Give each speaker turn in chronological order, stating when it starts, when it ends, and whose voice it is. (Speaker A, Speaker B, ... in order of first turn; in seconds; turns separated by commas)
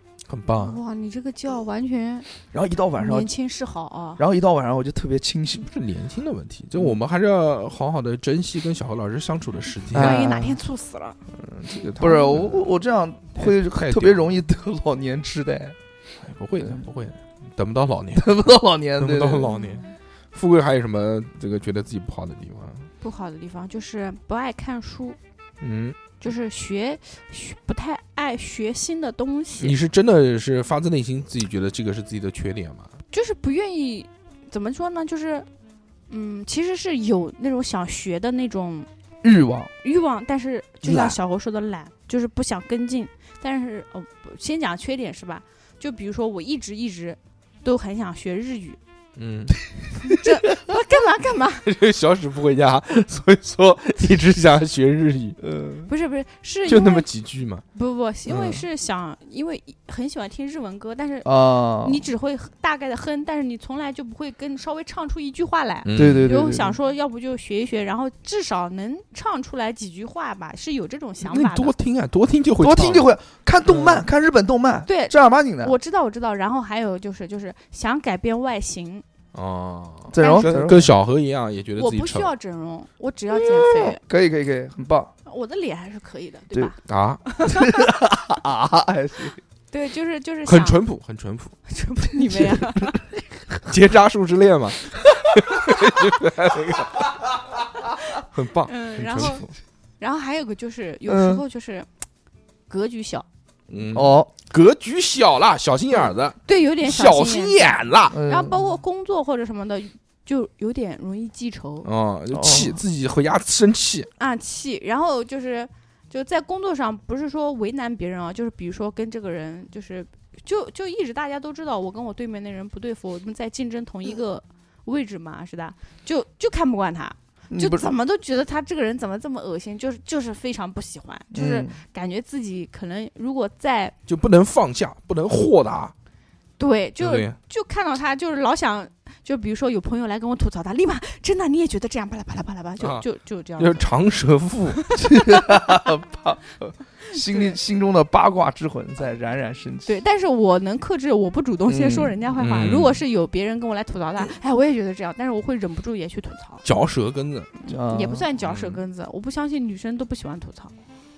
Speaker A: 0.2-0.8, Speaker B: 0.5-2.3, Speaker C: 2.5-3.3, Speaker B: 3.0-4.2, Speaker C: 4.2-5.7, Speaker A: 5.7-10.3, Speaker C: 9.9-10.6, Speaker B: 9.9-11.2, Speaker A: 11.3-12.7, Speaker C: 12.0-15.8, Speaker A: 13.3-14.4, Speaker A: 16.2-18.3, Speaker C: 18.1-19.6, Speaker A: 19.0-22.9, Speaker B: 19.5-19.9, Speaker B: 23.0-25.2, Speaker A: 25.6-26.0, Speaker B: 26.2-29.7, Speaker A: 29.6-32.9, Speaker B: 33.1-35.5, Speaker B: 36.1-38.9, Speaker C: 39.2-39.7, Speaker B: 39.8-48.8, Speaker C: 40.8-41.2, Speaker A: 49.1-49.6, Speaker B: 50.0-51.7, Speaker A: 51.6-55.4, Speaker C: 55.4-55.9, Speaker B: 55.9-57.1, Speaker A: 56.6-57.6, Speaker B: 57.7-71.7, Speaker A: 58.3-58.6, Speaker C: 61.2-62.0, Speaker A: 65.8-66.3, Speaker C: 65.9-66.8, Speaker A: 71.2-73.1, Speaker C: 72.6-75.7, Speaker A: 73.7-74.0, Speaker B: 74.8-79.0, Speaker A: 79.3-82.3, Speaker C: 80.1-80.9, Speaker B: 80.2-80.7, Speaker B: 81.8-84.0, Speaker C: 83.3-85.1, Speaker B: 85.2-86.8, Speaker A: 86.8-87.2, Speaker B: 87.3-87.7, Speaker C: 87.4-89.4, Speaker B: 89.7-90.8, Speaker A: 90.5-91.5, Speaker B: 91.7-93.0, Speaker C: 92.3-93.0, Speaker A: 93.7-97.1, Speaker A: 98.2-99.5, Speaker B: 98.7-99.5, Speaker B: 100.0-101.9, Speaker C: 101.0-101.4, Speaker B: 102.7-103.2, Speaker A: 103.7-108.2, Speaker C: 103.9-104.3, Speaker B: 106.4-111.9, Speaker C: 108.1-108.7, Speaker A: 111.8-114.1, Speaker C: 112.3-112.8, Speaker B: 114.2-133.9, Speaker C: 127.5-127.9, Speaker C: 131.3-131.8, Speaker A: 134.1-135.9, Speaker B: 136.6-143.9, Speaker A: 137.0-137.4, Speaker A: 142.8-143.0, Speaker A: 143.6-144.8, Speaker B: 144.8-145.8, Speaker C: 145.0-149.9, Speaker B: 147.1-147.6, Speaker B: 149.8-156.6, Speaker C: 151.7-152.2, Speaker A: 152.4-153.0, Speaker A: 156.6-157.5, Speaker B: 157.6-160.7, Speaker C: 157.7-158.2, Speaker A: 158.4-158.8